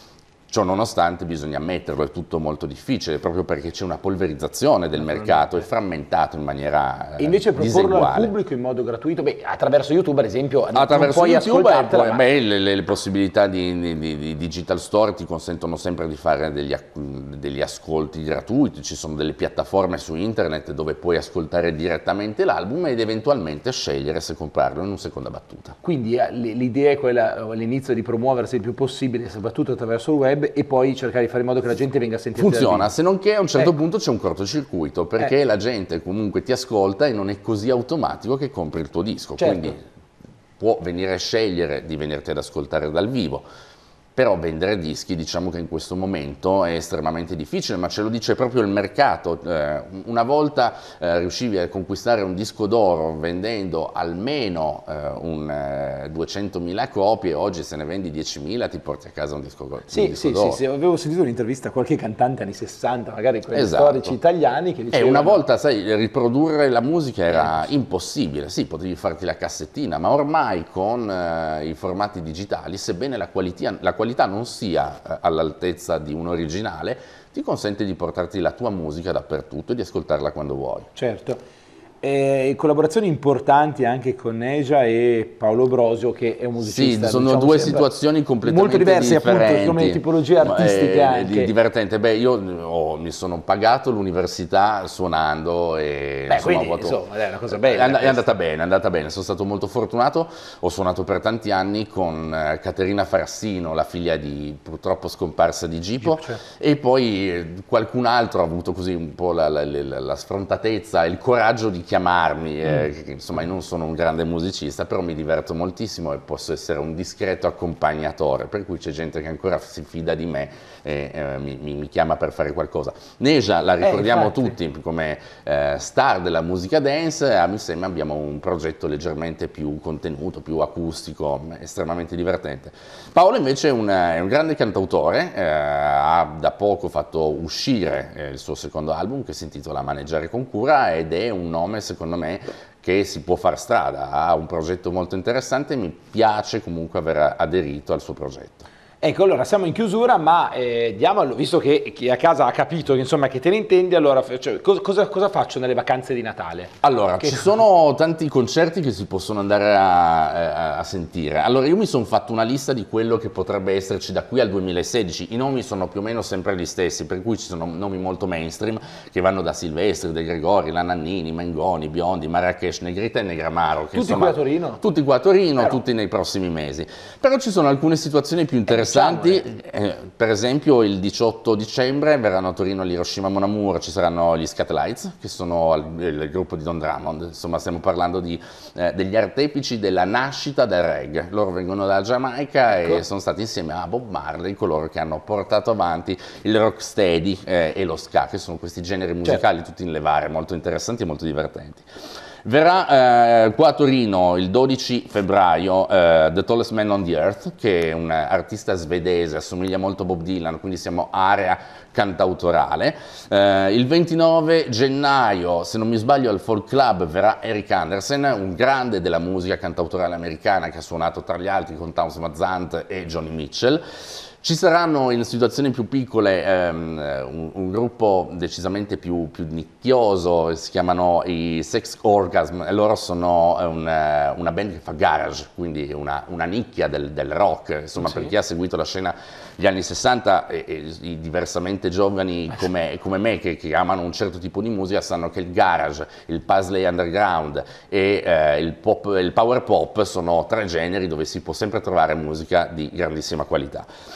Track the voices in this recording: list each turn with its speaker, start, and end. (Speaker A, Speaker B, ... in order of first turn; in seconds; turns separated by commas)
Speaker A: 0.5-8.3, Speaker B: 5.0-5.7, Speaker B: 7.2-12.2, Speaker A: 10.7-25.8, Speaker B: 25.8-32.9, Speaker A: 32.4-39.8, Speaker B: 39.4-39.8, Speaker A: 40.6-43.5, Speaker A: 44.1-60.6, Speaker B: 59.9-65.4, Speaker A: 63.5-64.2, Speaker A: 64.9-80.9, Speaker B: 67.3-67.7, Speaker B: 81.0-81.4, Speaker B: 82.0-87.9, Speaker A: 86.6-97.0, Speaker B: 88.4-91.5, Speaker B: 96.3-98.3, Speaker A: 97.5-148.7, Speaker B: 106.0-106.4, Speaker B: 123.8-124.5, Speaker B: 149.0-157.5, Speaker A: 156.8-201.9, Speaker B: 173.9-174.8, Speaker B: 178.7-179.5, Speaker B: 192.7-193.0, Speaker A: 202.4-223.8, Speaker A: 224.4-253.9, Speaker B: 238.0-238.3